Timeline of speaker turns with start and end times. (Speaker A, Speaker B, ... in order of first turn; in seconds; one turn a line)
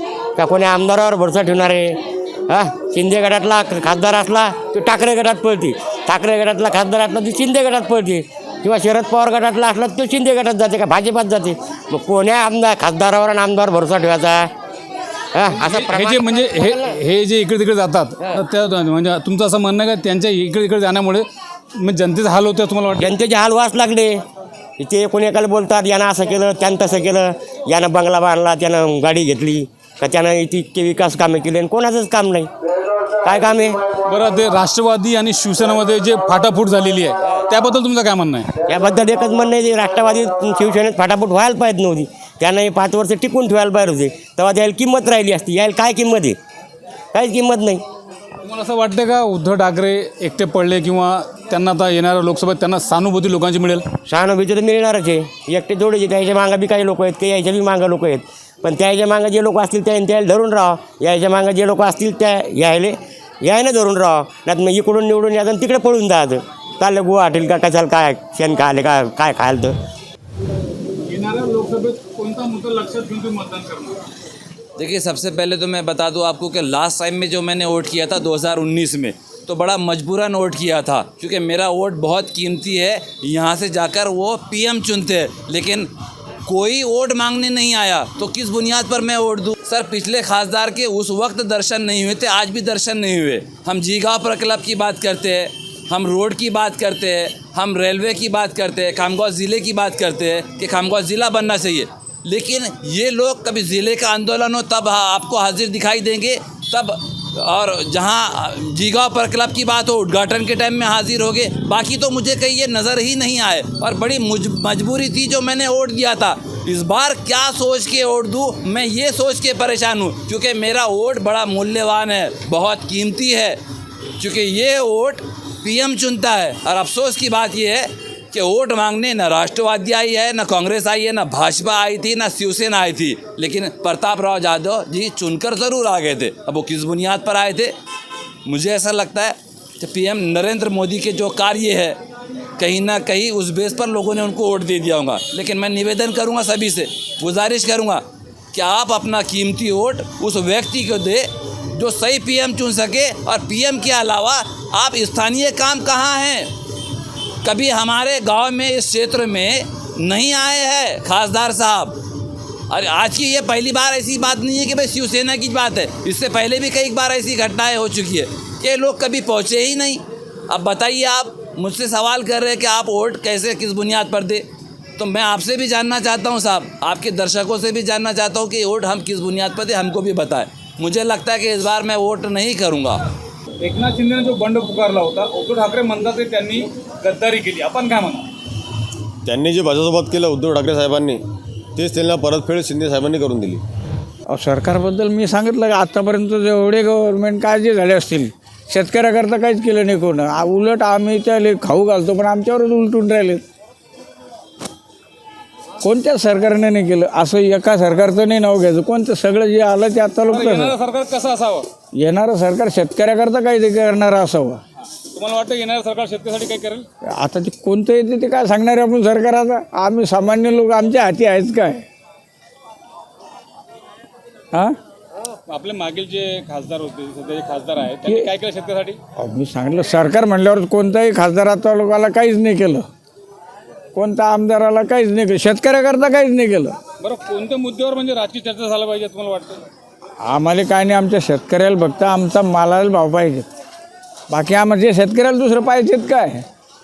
Speaker A: 0.4-1.9
Speaker A: 2.5-14.5
Speaker A: 15.3-17.0
Speaker B: 15.5-21.2
Speaker B: 21.8-23.1
Speaker A: 22.9-24.2
Speaker A: 24.8-32.5
Speaker A: 33.2-33.8
Speaker B: 34.1-38.5
Speaker A: 38.7-46.4
Speaker A: 47.1-47.8
Speaker B: 48.4-53.8
Speaker A: 54.1-69.7
Speaker B: 71.0-74.0
Speaker C: 74.8-85.9
Speaker C: 86.5-123.6
Speaker C: 124.2-137.7
Speaker C: 138.4-142.0
Speaker C: 142.6-156.5
Speaker C: 157.4-162.0
Speaker C: 162.7-174.4
Speaker C: 175.0-183.0
Speaker B: 183.6-188.3
Speaker D: 189.3-191.2
Speaker D: 191.8-193.6
Speaker E: 194.3-203.4
Speaker E: 205.8-210.7
Speaker B: 210.3-211.7
Speaker E: 212.0-214.6
Speaker B: 215.1-216.8
Speaker E: 217.2-221.8
Speaker B: 225.5-229.0
Speaker E: 229.2-232.8
Speaker E: 233.9-236.7
Speaker B: 237.0-239.6
Speaker E: 240.3-243.4
Speaker E: 244.3-246.4